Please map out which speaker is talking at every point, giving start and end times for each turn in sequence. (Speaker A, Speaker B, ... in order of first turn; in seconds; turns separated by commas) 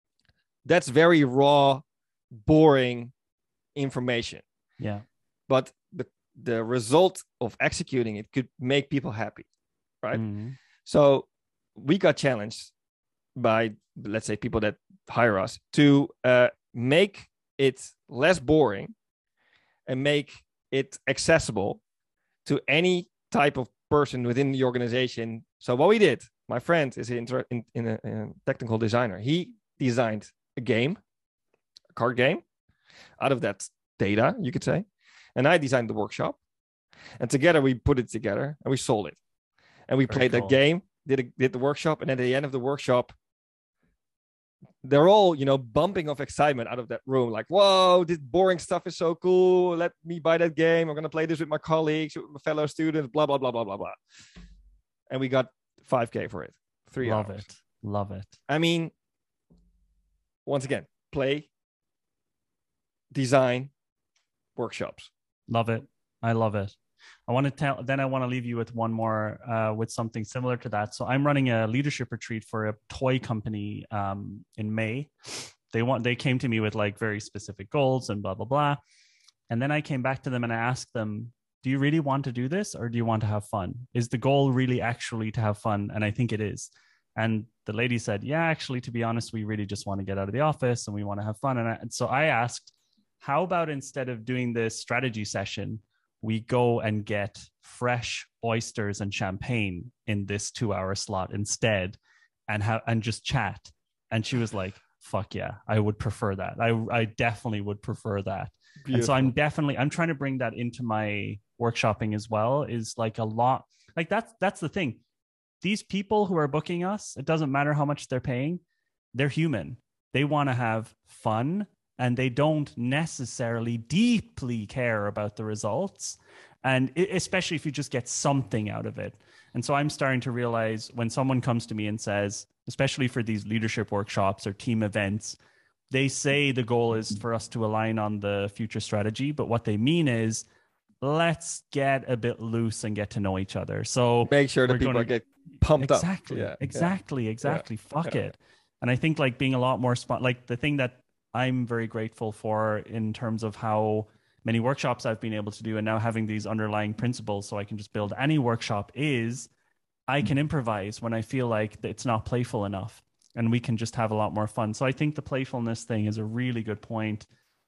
Speaker A: 0.6-1.8, Speaker A: 2.4-3.1, Speaker A: 3.7-4.4, Speaker B: 4.8-5.0, Speaker A: 5.5-9.5, Speaker B: 10.1-10.6, Speaker A: 10.8-12.7, Speaker A: 13.3-18.9, Speaker A: 19.9-21.8, Speaker A: 22.4-31.0, Speaker A: 31.9-32.4, Speaker A: 33.2-36.4, Speaker A: 37.2-39.2, Speaker A: 39.9-43.1, Speaker B: 40.1-40.5, Speaker A: 44.8-54.0, Speaker A: 55.1-57.4, Speaker B: 57.0-58.3, Speaker A: 58.5-58.9, Speaker A: 60.5-61.5, Speaker A: 63.1-63.7, Speaker A: 64.5-65.1, Speaker B: 65.5-66.7, Speaker B: 67.3-78.8, Speaker B: 79.5-115.0, Speaker A: 108.8-109.3, Speaker B: 115.6-118.6, Speaker B: 119.1-135.4, Speaker B: 135.9-140.4, Speaker B: 141.0-145.1, Speaker A: 144.2-148.3, Speaker B: 145.8-159.5, Speaker B: 160.1-167.3